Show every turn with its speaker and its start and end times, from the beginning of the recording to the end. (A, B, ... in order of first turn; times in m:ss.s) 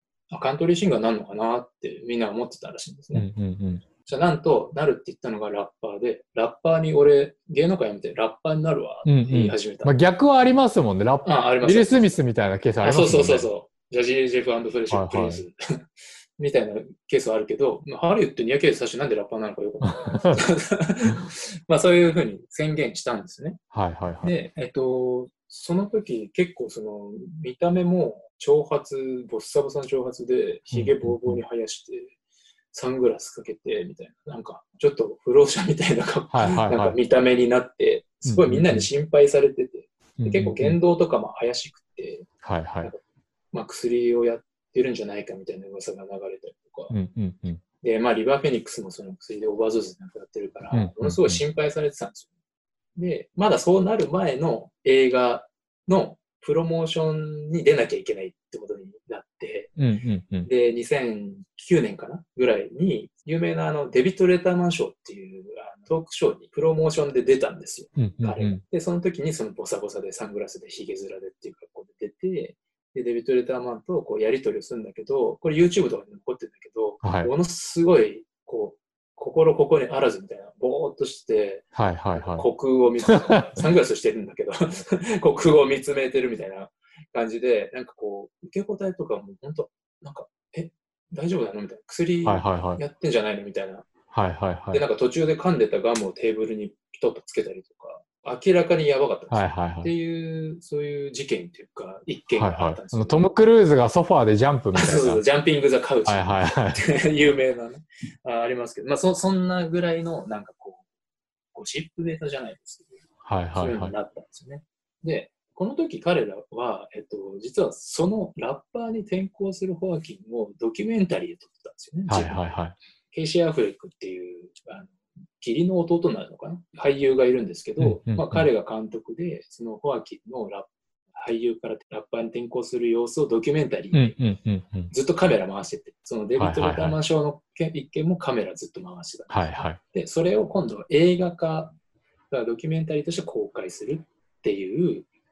0:00.3-0:03.3 A
0:03.1-0:03.8 B
0:04.0-0:10.0 A
0:09.0-0:13.5 B
0:11.2-0:12.2 A
0:12.8-0:15.6 A
0:14.9-0:15.4 B
0:16.4-0:23.6 A
0:19.8-0:20.4 B
0:23.7-0:24.4 B
0:24.2-0:32.1 A
0:30.7-0:31.4 B
0:32.7-0:42.3 A
0:36.3-0:37.0 B
0:38.2-0:38.9 B
0:40.2-0:40.8 B
0:42.4-0:42.9 B
0:43.5-0:47.0 A
0:46.9-0:47.6 B
0:47.8-0:52.3 A
0:50.7-0:51.4 B
0:53.0-0:59.7 A
0:59.8-1:00.5 B
1:00.4-1:33.9 A
1:08.0-1:08.6 B
1:17.0-1:17.3 B
1:21.7-1:22.5 B
1:32.2-1:32.8 B
1:34.1-1:34.8 B
1:34.7-1:43.3 A
1:39.3-1:39.9 B
1:42.4-1:45.2 B
1:44.8-1:50.8 A
1:46.0-1:46.8 B
1:51.5-1:53.0 A
1:53.2-1:54.0 B
1:53.6-2:02.5 A
2:02.1-2:02.8 B
2:03.1-2:14.2 A
2:07.8-2:08.4 B
2:13.9-2:14.9 B
2:14.9-2:21.8 A
2:16.4-2:17.0 B
2:19.3-2:19.8 B
2:22.3-2:25.1 A